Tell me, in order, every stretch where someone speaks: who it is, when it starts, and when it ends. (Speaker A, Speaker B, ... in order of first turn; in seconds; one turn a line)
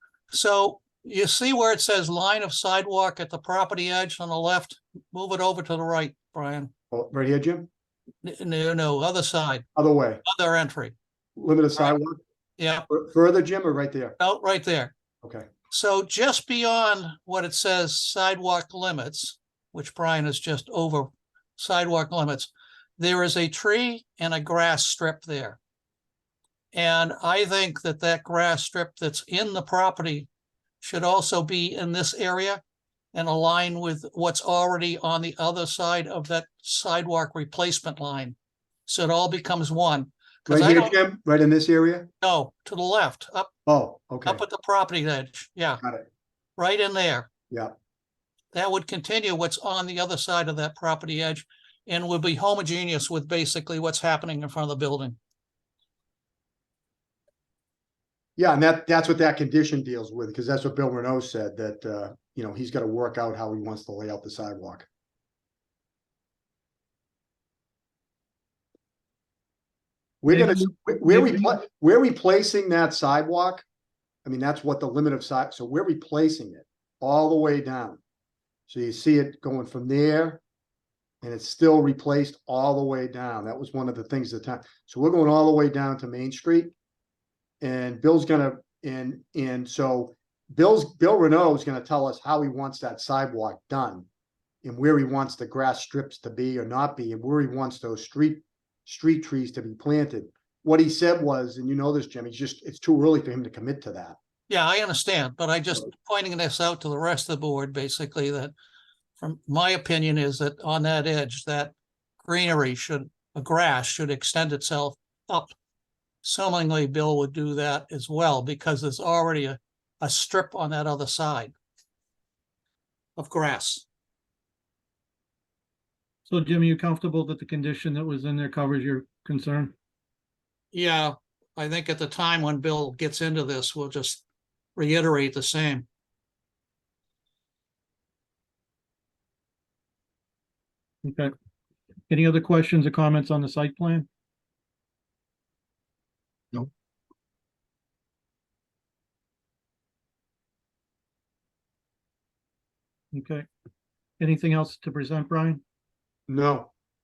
Speaker A: 0.3-6.7
Speaker B: 6.9-7.7
Speaker A: 8.2-9.7
Speaker B: 9.8-10.2
Speaker A: 10.2-10.9
Speaker B: 11.3-12.2
Speaker A: 12.6-12.9
Speaker B: 12.9-14.2
Speaker A: 14.2-14.9
Speaker B: 15.2-15.5
Speaker A: 15.7-25.6
Speaker A: 26.7-30.3
Speaker A: 30.8-32.6
Speaker A: 33.1-40.9
Speaker B: 40.5-42.1
Speaker A: 42.2-43.5
Speaker B: 43.6-44.4
Speaker A: 44.2-45.8
Speaker B: 45.8-46.0
Speaker A: 46.6-47.3
Speaker A: 48.5-55.2
Speaker B: 58.4-64.9
Speaker B: 70.2-73.6
Speaker B: 74.2-78.0
Speaker B: 78.7-80.4
Speaker B: 81.2-86.7
Speaker B: 87.6-94.1
Speaker B: 94.6-104.2
Speaker A: 104.5-108.5
Speaker A: 109.2-115.5
Speaker A: 116.2-121.5
Speaker A: 123.2-123.8
Speaker C: 126.3-129.7
Speaker A: 130.7-134.2
Speaker A: 134.8-135.9
Speaker C: 141.0-141.3
Speaker C: 142.1-144.1
Speaker C: 153.1-153.4
Speaker C: 154.2-155.6
Speaker B: 156.3-156.7